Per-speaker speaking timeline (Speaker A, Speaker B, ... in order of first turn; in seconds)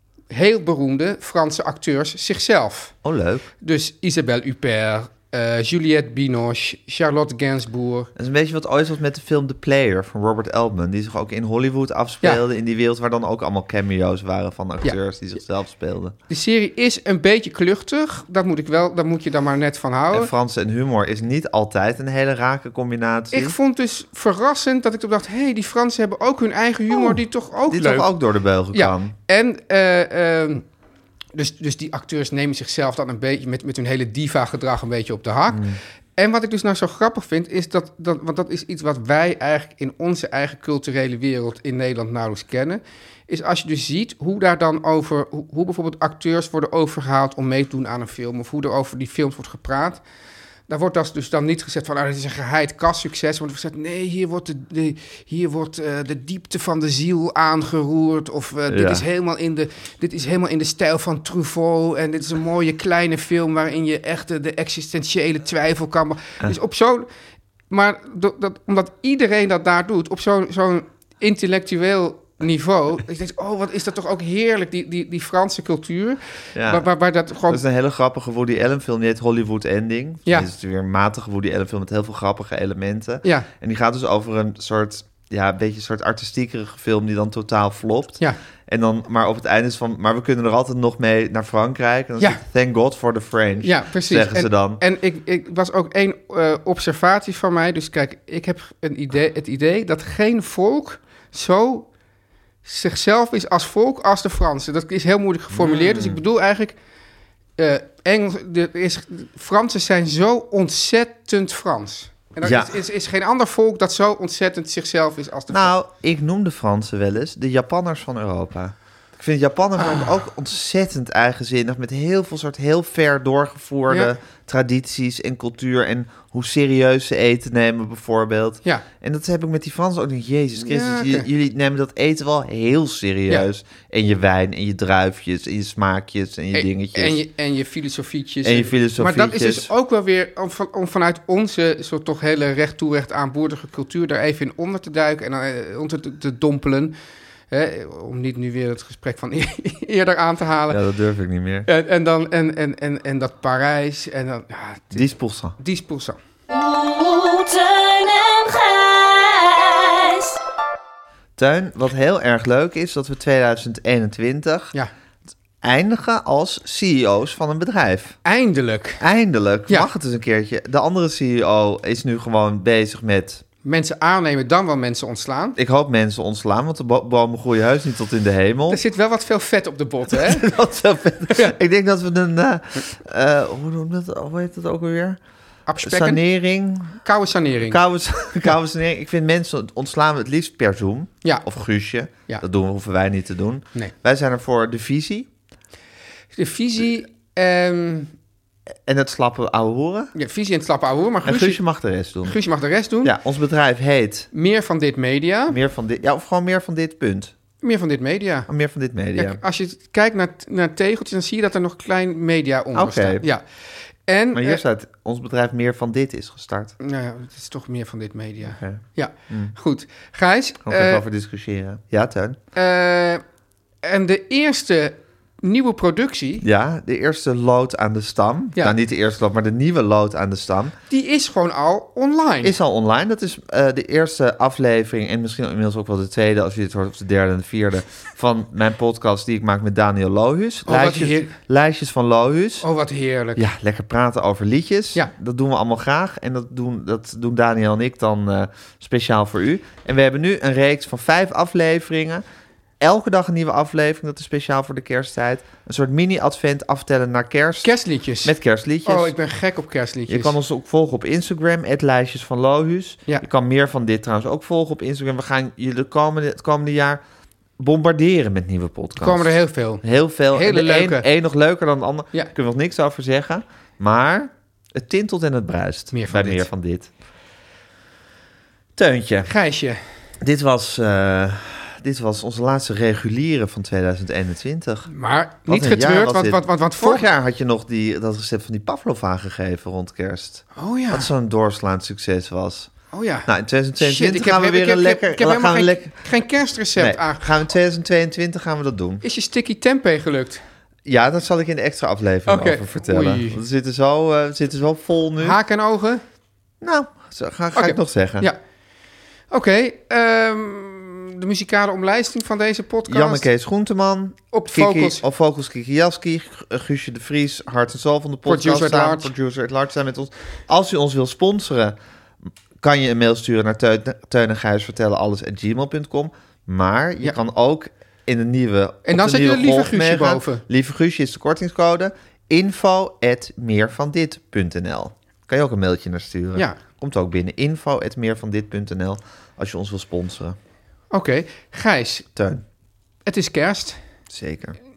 Speaker A: 0.3-2.9, 3.6-8.1, 16.3-20.3, 23.3-28.1, 28.7-30.6, 31.4-35.6, 36.2-50.0, 50.7-67.1, 67.7-77.6, 93.6-101.9, 102.6-106.8, 107.6-115.7, 119.8-120.1, 130.6-131.3, 136.5-146.9, 147.5-150.8, 151.7-156.2, 168.2-169.0, 173.7-175.6, 178.7-180.6, 181.3-181.6, 185.7-186.2, 187.0-187.8, 191.2-191.5, 196.3-198.1, 200.2-201.6, 202.2-203.1, 204.3-205.6, 207.6-208.5, 209.2-213.4, 214.1-214.6, 216.8-221.0, 222.6-223.2, 223.8-226.4, 230.9-232.6, 240.7-241.3, 242.6-243.5, 257.6-258.4, 258.9-260.4, 269.0-271.1, 275.9-276.5, 279.3-279.8, 284.9-287.1, 290.6-291.1, 292.9-293.3, 293.8-297.4, 299.0-300.4, 302.3-303.4, 305.2-306.0, 307.5-308.4, 309.3-313.3, 314.3-315.0, 318.3-319.1, 328.9-330.4, 340.9-342.1, 343.1-343.8
Speaker B: 3.0-3.5, 8.2-16.2, 20.1-23.6, 26.9-29.1, 35.5-35.8, 58.7-59.0, 76.5-76.9, 77.5-94.8, 105.5-106.2, 112.4-112.8, 115.5-137.2, 138.4-139.7, 150.7-151.7, 154.9-155.6, 161.4-164.7, 165.6-168.2, 169.0-173.4, 175.6-178.8, 180.1-185.2, 185.8-187.0, 187.7-195.3, 198.8-200.1, 201.2-202.4, 203.0-204.3, 205.5-207.3, 208.5-209.4, 212.7-213.2, 214.3-216.8, 218.5-219.5, 220.6-222.4, 226.4-230.7, 232.4-242.7, 243.4-252.2, 252.8-257.7, 258.2-259.1, 260.1-267.0, 267.6-276.9, 278.8-279.3, 280.2-284.9, 285.5-292.7, 293.3-296.0, 296.8-299.0, 300.9-305.4, 306.6-308.3, 312.9-321.8, 322.6-340.4, 342.2-342.4, 344.1-344.6
Speaker C: 156.5-160.4